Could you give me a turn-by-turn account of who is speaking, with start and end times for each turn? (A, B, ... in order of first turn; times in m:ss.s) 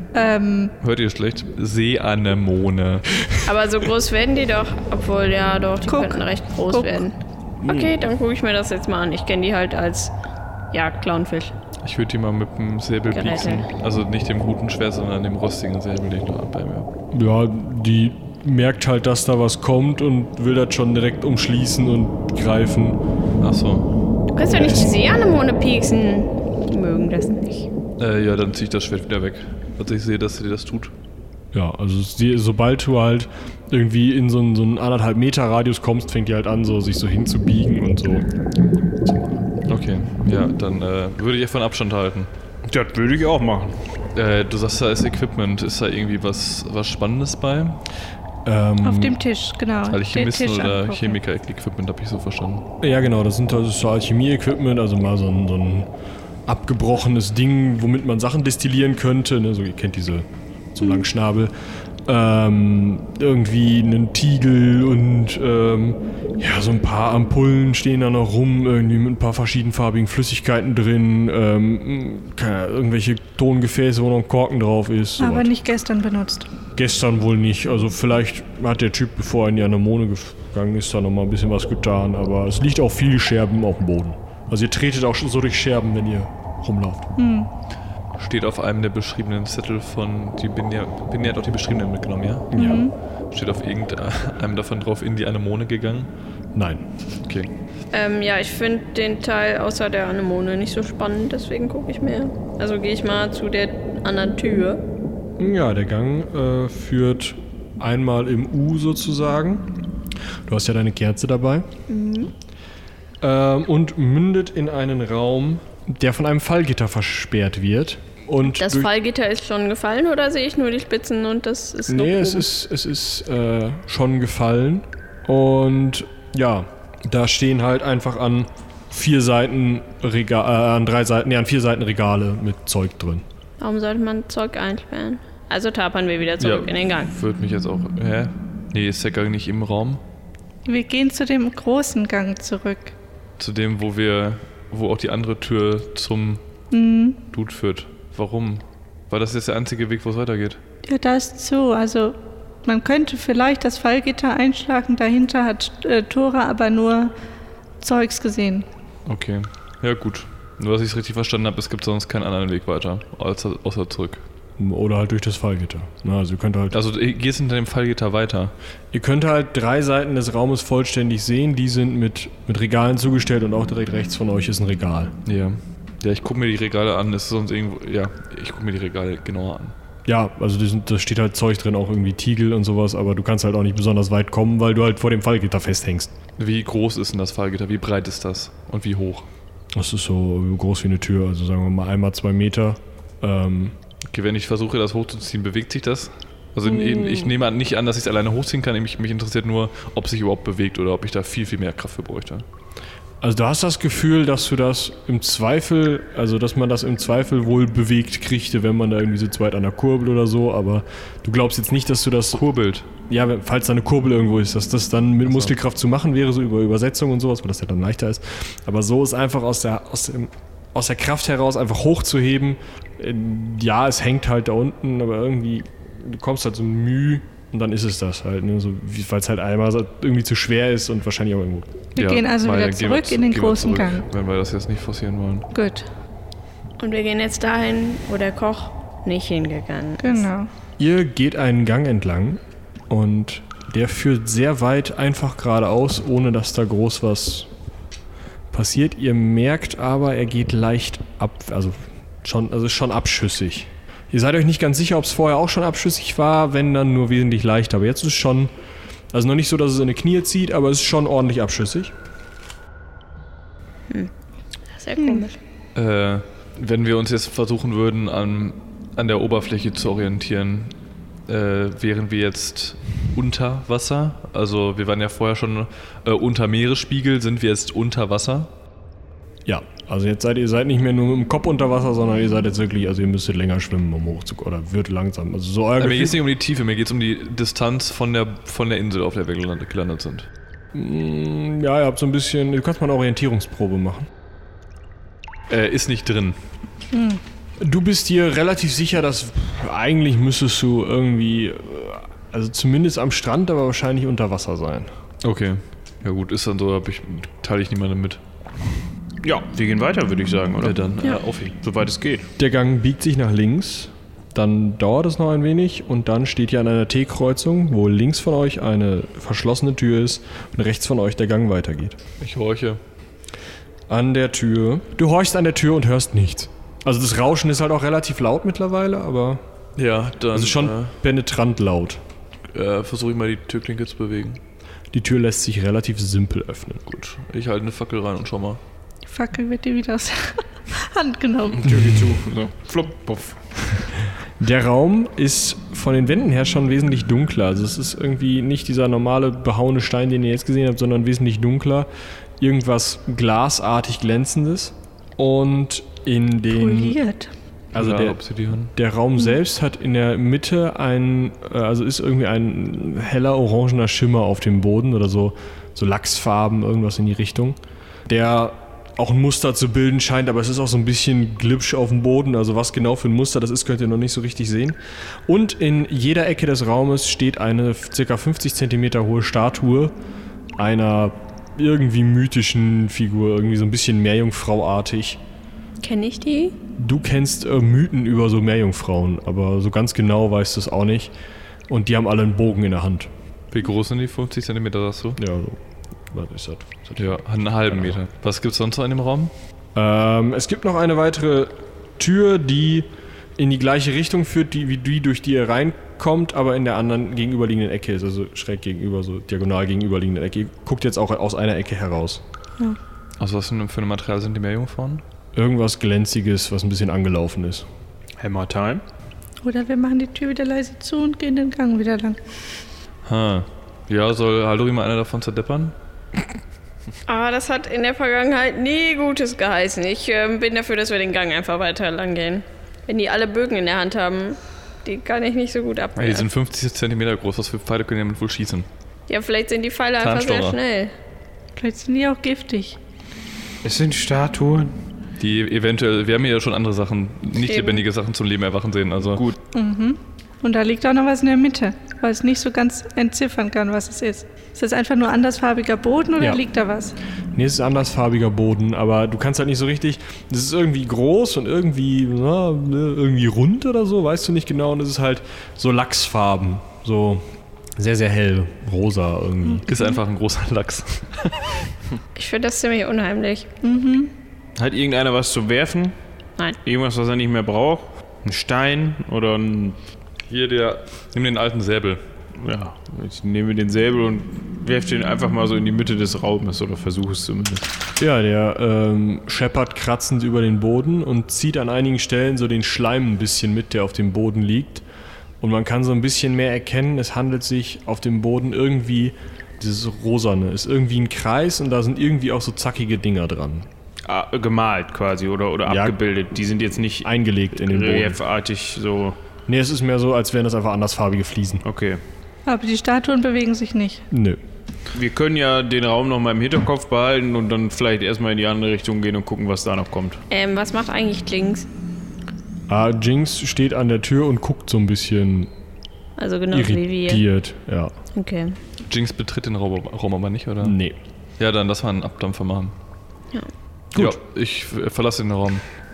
0:00.1-0:00.7 A
0:00.8-0:03.2 B
0:03.4-0:10.1 C
0:05.9-0:07.0 A
0:07.6-0:07.9 D
0:10.7-0:11.6 C
0:11.8-0:16.9 B
0:13.1-0:13.7 C
0:17.1-0:23.0 E
0:23.4-0:23.9 B
0:24.3-0:27.7 C
0:24.5-0:25.0 E
0:28.0-0:30.9 B
0:31.5-0:38.3 E
0:38.8-0:39.4 E
0:39.7-0:42.3 B
0:42.6-0:43.8 D
0:44.1-0:47.8 B
0:48.4-0:49.2 E
0:48.8-0:51.2 A
0:49.9-0:52.6 B
0:52.8-0:55.9 E
0:56.4-1:01.5 E
1:02.0-1:15.5 E
1:15.2-1:16.5 A
1:16.7-1:27.1 E
1:27.2-1:27.5 A
1:28.2-1:32.8 B
1:32.5-1:32.9 E
1:32.5-1:32.9 A
1:33.3-1:36.1 B
1:36.5-1:36.8 E
1:37.9-1:44.8 C
1:45.4-1:49.6 E
1:50.5-1:51.7 E
1:51.9-1:52.3 C
1:53.2-1:58.9 E
1:58.4-2:02.5 C
2:01.9-2:13.2 E
2:13.6-2:17.1 C
2:16.4-2:20.0 B
2:20.6-2:22.9 A
2:23.4-2:26.4 B
2:26.7-2:27.2 A
2:27.3-2:30.6 B
2:30.8-2:37.1 A
2:37.8-2:38.6 A
2:39.0-2:44.2 B
2:44.6-2:46.8 E
2:46.7-2:48.5 B
2:48.9-2:55.1 E
2:55.2-2:59.7 B
3:00.0-3:06.1 E
3:06.4-3:09.2 B
3:09.7-3:13.8 E
3:14.1-3:22.4 B
3:23.2-3:32.4 E
3:32.3-3:32.8 B
3:33.1-3:51.7 E
3:35.3-3:35.5 B
3:52.0-3:54.0 A
3:52.0-3:55.5 B
3:55.5-3:55.9 A
3:56.8-4:00.3 C
4:00.0-4:00.5 A
4:00.8-4:07.5 E
4:08.5-4:18.5 E
4:19.1-4:21.9 E
4:24.7-4:25.4 C
4:25.7-4:30.7 B
4:31.3-4:38.5 B
4:39.4-4:46.2 E
4:45.8-4:50.3 B
4:50.7-4:54.1 E
4:55.5-4:56.4 B
4:56.9-4:57.2 A
4:57.6-5:04.9 E
5:05.2-5:08.2 B
5:09.2-5:10.8 D
5:10.6-5:11.5 B
5:11.6-5:12.3 D
5:12.4-5:22.0 E
5:22.2-5:22.8 B
5:23.9-5:29.4 E
5:29.8-5:30.9 B
5:30.3-5:32.0 E
5:32.5-5:34.4 B
5:34.9-5:36.8 E
5:36.9-5:38.6 B
5:39.0-5:41.7 A
5:41.5-5:43.9 D
5:44.4-5:57.0 E
5:56.5-5:57.3 A
5:57.7-5:58.2 E
5:57.7-5:58.7 B
5:58.7-6:19.9 E
6:20.6-6:25.2 E
6:25.8-6:26.5 C
6:26.8-6:31.1 E
6:31.7-6:33.1 E
6:33.5-6:35.2 B
6:35.2-6:38.0 E
6:37.0-6:39.3 B
6:39.7-6:52.2 E
6:53.2-6:55.0 B
6:55.3-6:57.6 E
6:58.2-6:58.8 D
6:59.4-7:02.2 A
7:03.0-7:05.7 B
7:07.1-7:16.3 C
7:16.0-7:18.7 B
7:19.1-7:20.9 C
7:20.0-7:20.6 B
7:21.6-7:22.8 A
7:23.6-7:24.7 D
7:25.2-7:29.2 B
7:27.4-7:27.8 C
7:29.5-7:37.0 A
7:37.3-7:49.6 E
7:49.7-7:51.7 B
7:52.2-7:53.5 C
7:53.6-7:54.1 A
7:54.6-7:55.9 D
7:56.6-7:59.8 D
8:00.3-8:02.0 B
8:02.4-8:07.7 D
8:08.0-8:14.8 E
8:15.4-8:23.7 E
8:24.0-8:29.2 D
8:25.6-8:26.0 E
8:27.0-8:28.2 E
8:29.5-8:31.6 E
8:31.6-8:32.0 D
8:32.4-8:34.0 A
8:34.1-8:34.4 E
8:34.9-8:40.2 D
8:40.3-8:41.7 C
8:42.7-8:45.5 E
8:46.2-8:47.2 C
8:46.5-8:47.9 E
8:48.1-8:48.6 C
8:48.9-8:50.8 B
8:50.6-8:51.0 E
8:51.4-8:52.7 B
8:53.9-8:54.2 E
8:53.9-8:55.6 B